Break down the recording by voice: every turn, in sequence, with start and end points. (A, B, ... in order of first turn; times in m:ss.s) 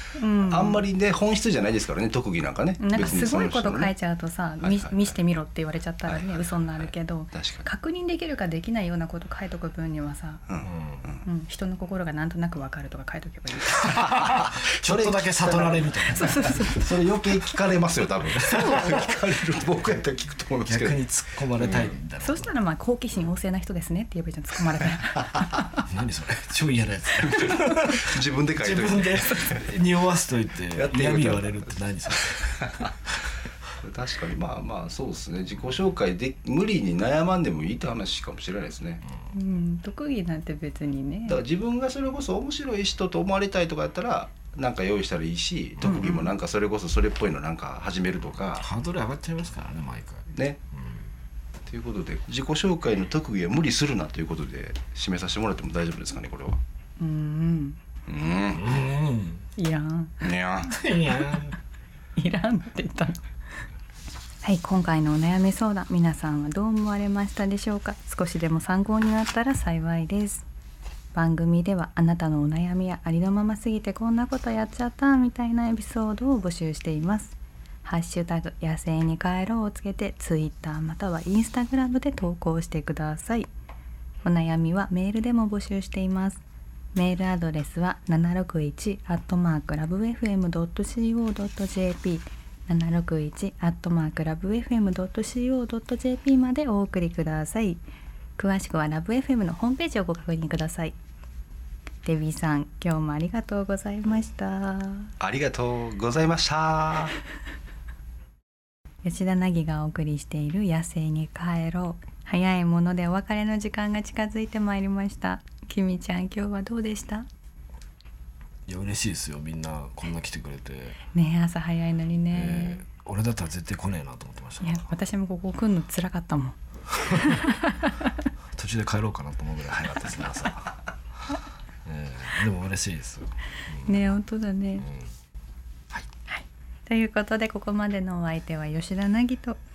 0:00.2-0:00.8 A
0:00.4-0:03.9 B
0:02.8-0:10.4 A
0:04.6-0:05.2 B
0:06.1-0:07.7 B
0:10.5-0:11.2 B
0:10.6-0:11.1 C
0:11.2-0:14.2 A
0:14.0-0:22.0 B
0:14.0-0:16.8 C
0:16.1-0:16.8 A
0:18.3-0:19.1 C
0:20.6-0:22.5 C
0:22.2-0:25.7 A
0:25.8-0:32.8 C
0:28.0-0:29.6 B
0:30.7-0:32.9 B
0:33.8-0:39.0 B
0:39.3-0:41.4 A
0:41.3-0:48.7 B
0:45.8-0:46.3 A
0:48.5-0:51.1 C
0:50.3-0:50.6 B
0:51.7-0:56.6 B
0:57.0-0:57.8 A
0:58.1-0:58.8 B
0:58.5-0:59.5 C
0:59.6-1:00.2 A
1:00.2-1:00.8 B
1:00.6-1:01.6 C
1:02.2-1:03.2 A
1:04.4-1:10.5 A
1:11.1-1:23.5 A
1:24.2-1:26.4 A
1:26.9-1:37.8 A
1:38.4-1:40.9 A
1:42.0-1:45.1 A
1:45.2-1:47.2 B
1:49.0-1:57.3 A
1:58.7-2:01.0 C
2:01.1-2:02.8 A
2:02.3-2:04.9 C
2:04.6-2:06.6 A
2:07.1-2:07.4 C
2:07.2-2:07.7 A
2:08.6-2:10.8 C
2:11.8-2:14.0 C
2:13.8-2:14.9 A
2:14.8-2:15.1 C
2:16.3-2:19.6 A